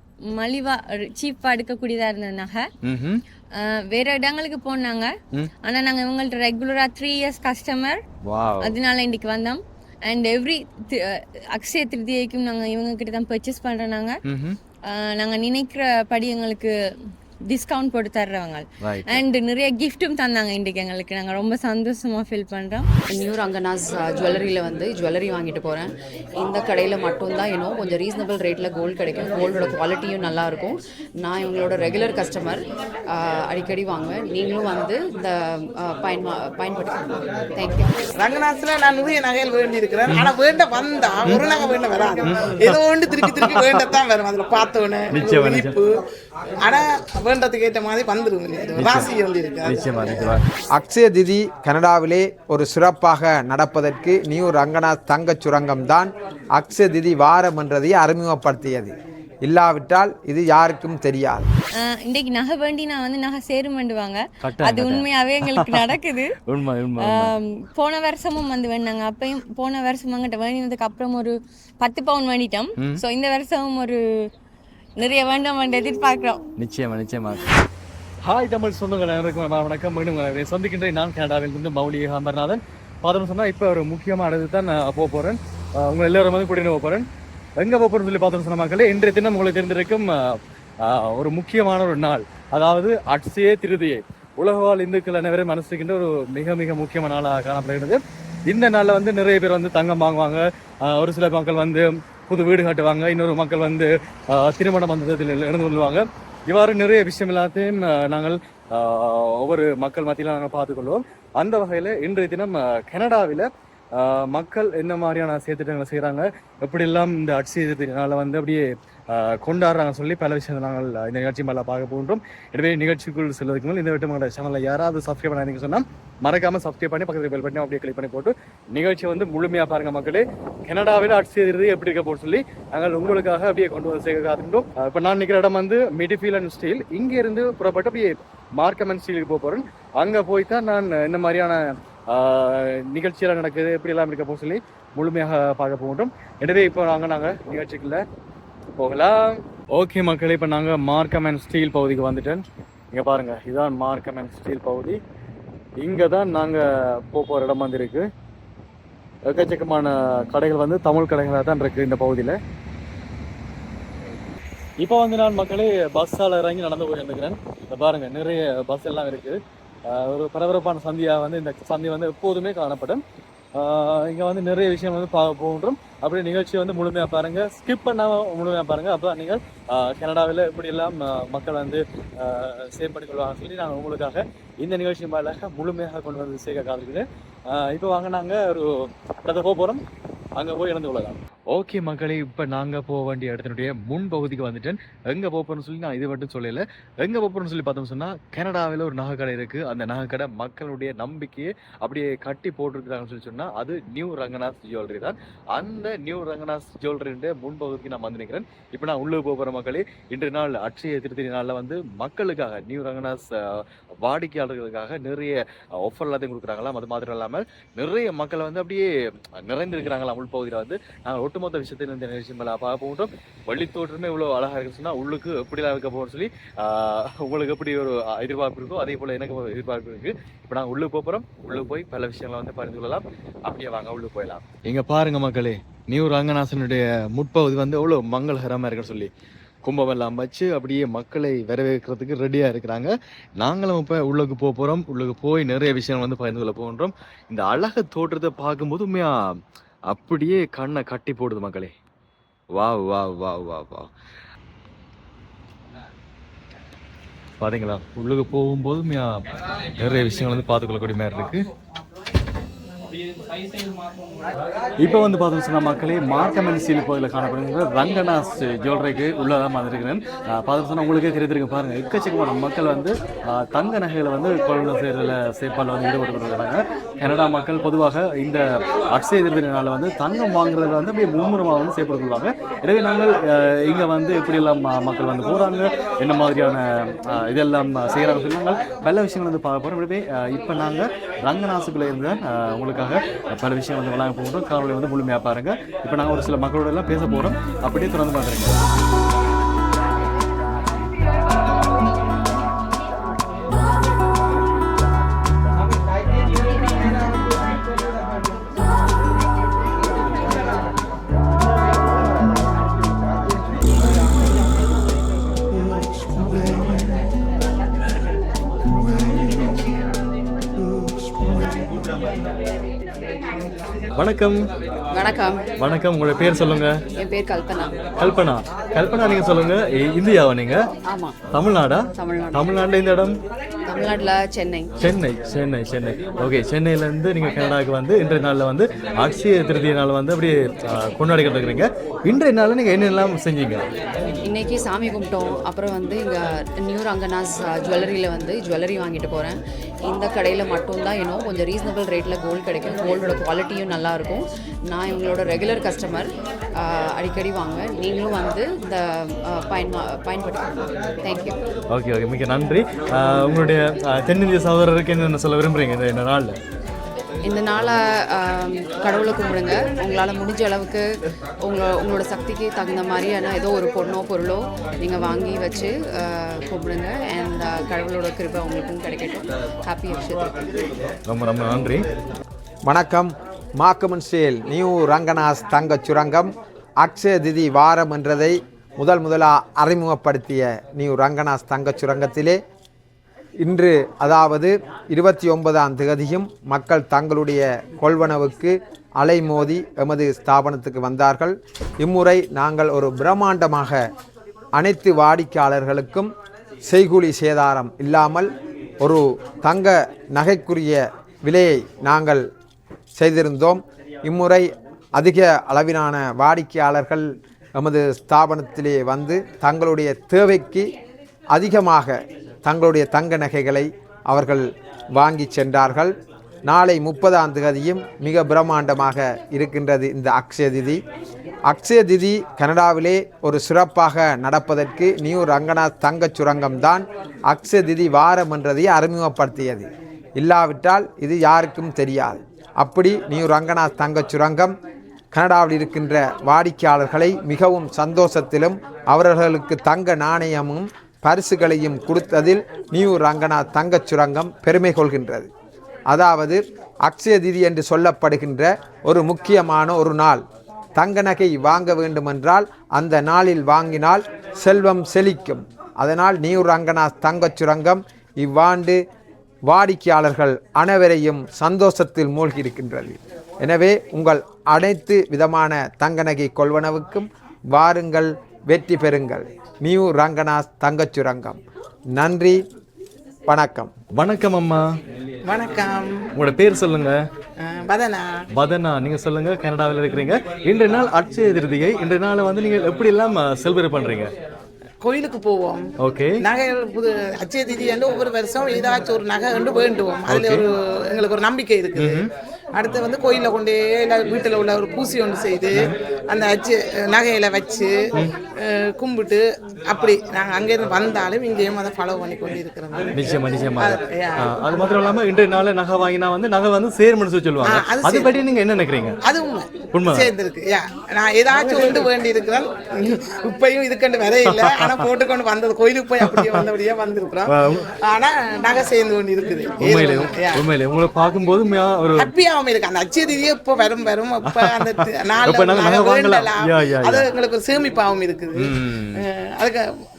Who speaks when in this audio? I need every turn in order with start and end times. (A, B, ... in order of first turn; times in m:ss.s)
0:00.4-0:02.6 A
0:02.8-0:03.2 B
0:03.6-0:05.1 A
0:05.6-0:08.0 A
0:08.2-0:08.8 B
0:08.6-0:14.2 A
0:14.2-0:14.6 B
0:14.9-0:16.7 A
0:17.5-0:22.9 A
0:18.8-0:19.2 B
0:23.1-0:37.9 C
0:38.2-0:46.0 D
0:42.3-0:43.8 B
0:45.1-0:45.8 B
0:46.6-0:50.3 D
0:48.8-0:49.1 B
0:49.6-0:50.4 B
0:50.8-1:01.5 E
1:01.8-1:06.4 A
1:04.4-1:07.4 B
1:07.0-1:14.0 A
1:12.8-1:13.0 B
1:15.0-1:16.4 A
1:16.6-1:17.5 B
1:18.2-1:27.1 B
1:27.6-2:28.0 B
2:28.8-2:35.0 B
2:35.8-2:38.0 B
2:39.3-2:42.4 B
2:44.8-2:53.0 B
2:53.6-3:08.7 B
3:09.2-3:09.8 B
3:10.4-3:59.1 B
3:59.6-4:09.2 B
4:09.9-4:11.7 B
4:12.5-4:13.9 B
4:17.4-4:19.1 B
4:19.8-4:21.4 B
4:24.8-4:58.6 B
5:24.0-5:24.4 B
5:24.9-5:25.4 C
5:25.6-5:26.7 B
5:27.0-5:27.8 C
5:28.0-5:30.6 B
5:30.9-5:31.2 C
5:31.3-5:33.2 B
5:32.0-5:32.4 C
5:33.7-5:34.7 C
5:34.8-5:43.6 B
5:44.2-6:01.4 C
6:01.7-6:06.4 B
6:07.2-6:10.9 C
6:11.4-6:20.4 C
6:21.1-6:21.8 B
6:22.7-6:32.4 E
6:33.4-6:43.8 E
6:44.6-6:46.1 E
6:46.7-6:48.3 E
6:48.8-6:52.3 E
6:53.0-7:00.7 E
7:01.3-7:05.9 E
7:06.4-7:10.8 E
7:11.5-7:24.5 E
7:25.1-7:35.3 E
7:35.9-7:40.2 E
7:40.8-7:48.8 E
7:49.5-8:01.4 E
8:01.9-8:02.4 E
8:03.3-8:03.7 E
8:04.0-8:04.6 B
8:05.3-8:06.0 D
8:06.2-8:07.0 B
8:07.4-8:08.2 D
8:08.4-8:14.1 B
8:14.8-8:15.7 D
8:15.8-8:16.2 B
8:16.2-8:27.8 D
8:20.1-8:20.4 B
8:21.8-8:22.1 B
8:28.4-8:34.3 D
8:32.9-8:39.0 B
8:37.4-8:38.1 D
8:39.0-8:47.3 D
8:39.7-8:40.1 B
8:41.4-8:41.8 B
8:44.3-8:44.8 B
8:46.0-8:46.4 B
8:47.3-8:47.6 B
8:47.8-8:50.4 D
8:49.6-8:52.1 B
8:52.0-8:59.7 D
8:54.3-8:57.1 B
8:58.4-8:59.1 B